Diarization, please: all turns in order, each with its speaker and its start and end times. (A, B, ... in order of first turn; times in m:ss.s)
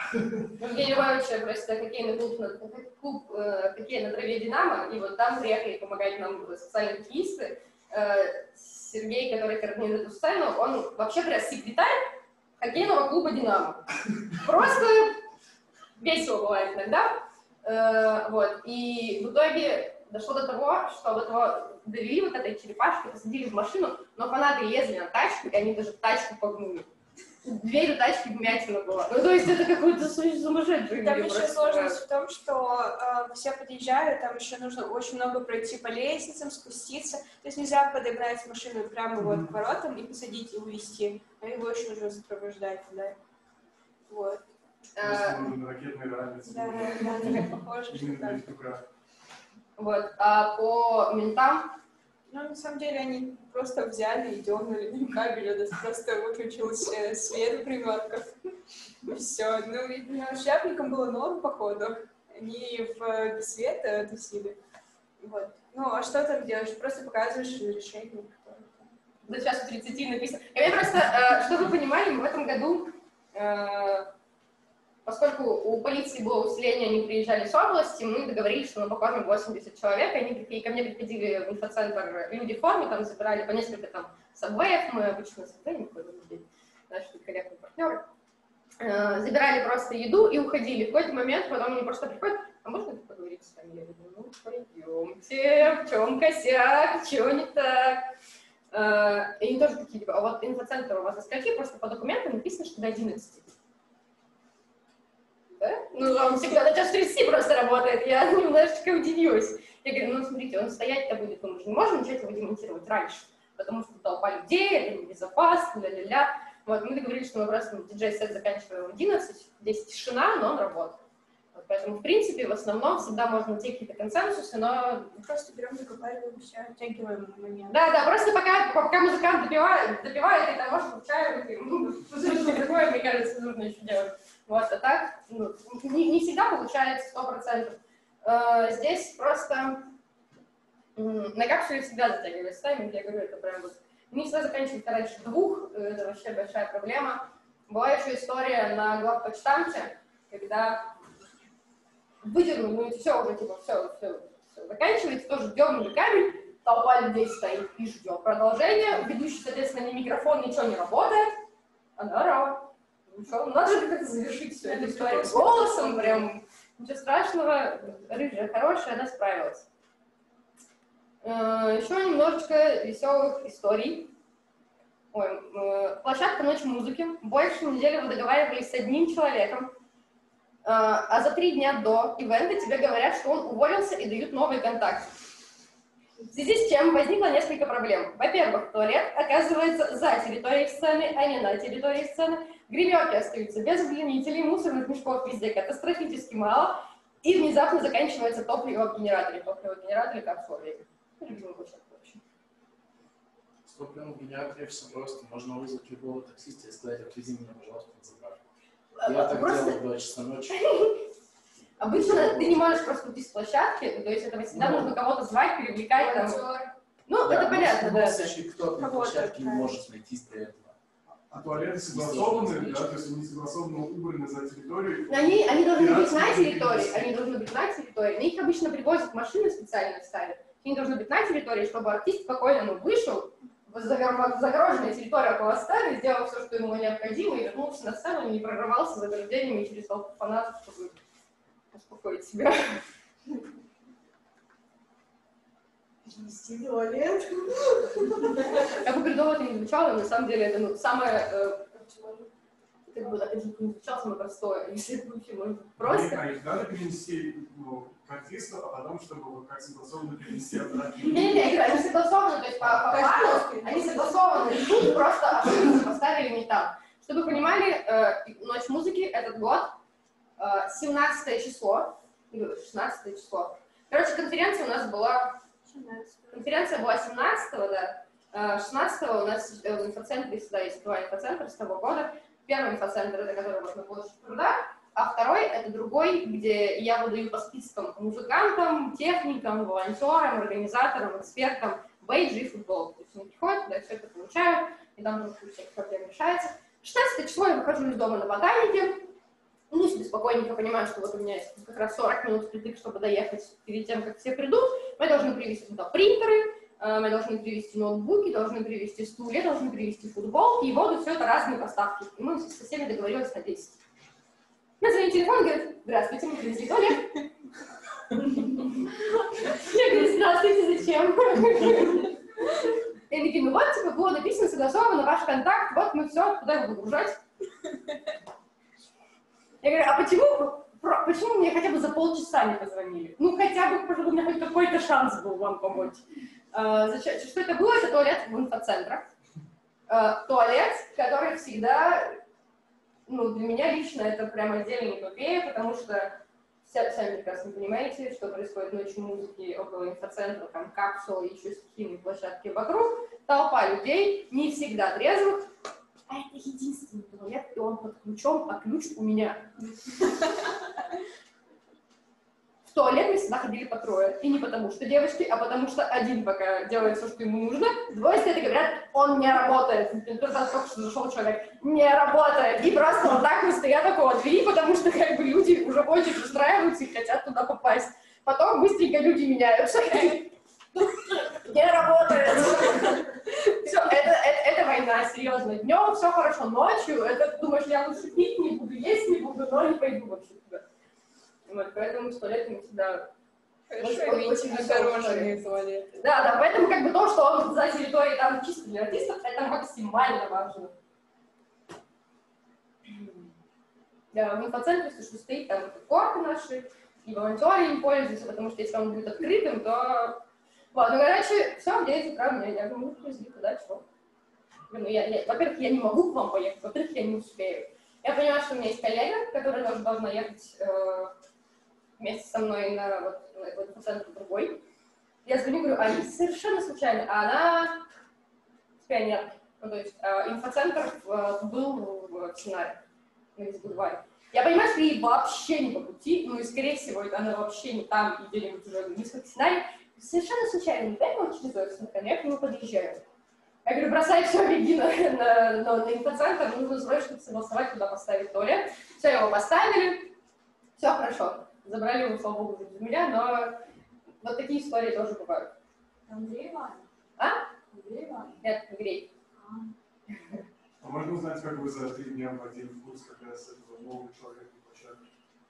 0:00.5-0:12.0 A
0:12.6-0:13.8 A
0:14.4-0:15.2 A
0:16.0-0:26.9 A
0:27.4-0:32.0 A
0:31.0-0:43.2 B
0:39.2-0:39.5 C
0:44.1-0:44.4 B
0:45.0-0:45.4 A
0:45.0-0:48.8 C
0:46.5-0:48.4 B
0:49.8-0:51.8 A
0:52.3-0:58.3 B
0:59.0-1:04.6 B
1:05.2-1:08.9 B
1:09.2-1:14.1 A
1:15.0-1:28.0 A
1:28.8-1:38.0 A
1:38.7-1:43.5 A
1:45.6-2:01.0 A
2:01.5-2:05.2 A
2:05.2-2:07.9 B
2:07.7-2:19.9 A
2:21.0-2:30.9 A
2:32.2-2:41.4 A
2:42.0-2:49.6 A
2:43.7-2:44.0 B
2:44.6-2:46.3 B
2:51.2-2:54.1 A
2:55.1-2:59.7 A
3:00.6-3:05.1 A
3:06.3-3:22.2 A
3:23.6-3:28.4 D
3:29.0-3:29.8 A
3:29.0-3:30.6 D
3:30.5-3:31.0 A
3:31.8-3:36.5 A
3:32.0-3:32.6 D
3:34.5-3:34.9 D
3:35.9-3:36.7 E
3:37.1-3:38.4 A
3:37.2-3:40.7 D
3:38.7-3:39.8 B
3:41.3-3:47.1 C
3:41.8-3:42.9 D
3:45.1-4:01.0 A
4:01.7-4:02.8 A
4:06.0-4:08.4 B
4:08.8-4:11.7 A
4:11.9-4:12.2 B
4:12.9-4:16.2 A
4:15.8-4:21.6 C
4:21.1-4:29.8 A
4:22.9-4:24.1 B
4:30.4-4:35.4 A
4:35.6-4:36.5 B
4:36.3-4:59.1 A
4:59.7-5:13.8 A
5:14.8-5:17.2 A
5:18.2-5:18.6 A
5:19.4-5:22.1 A
5:23.1-5:27.2 A
5:29.6-5:39.1 A
5:39.9-5:42.2 A
5:43.1-5:55.5 A
5:56.1-5:59.5 A
6:02.7-6:30.6 A
6:31.5-6:33.1 A
6:33.7-6:36.0 B
6:33.8-6:35.3 A
6:35.9-6:40.7 A
6:44.1-6:50.2 A
6:50.7-6:53.8 A
6:54.7-7:01.1 A
7:02.0-7:04.6 A
7:05.2-7:07.8 A
7:08.8-7:12.8 A
7:13.4-7:23.0 A
7:23.6-7:30.1 A
7:30.8-7:33.6 A
7:34.2-7:35.5 A
7:36.1-7:36.8 E
7:37.2-7:37.4 A
7:37.7-7:38.4 E
7:38.4-7:39.1 A
7:39.4-7:39.7 E
7:40.8-7:45.0 C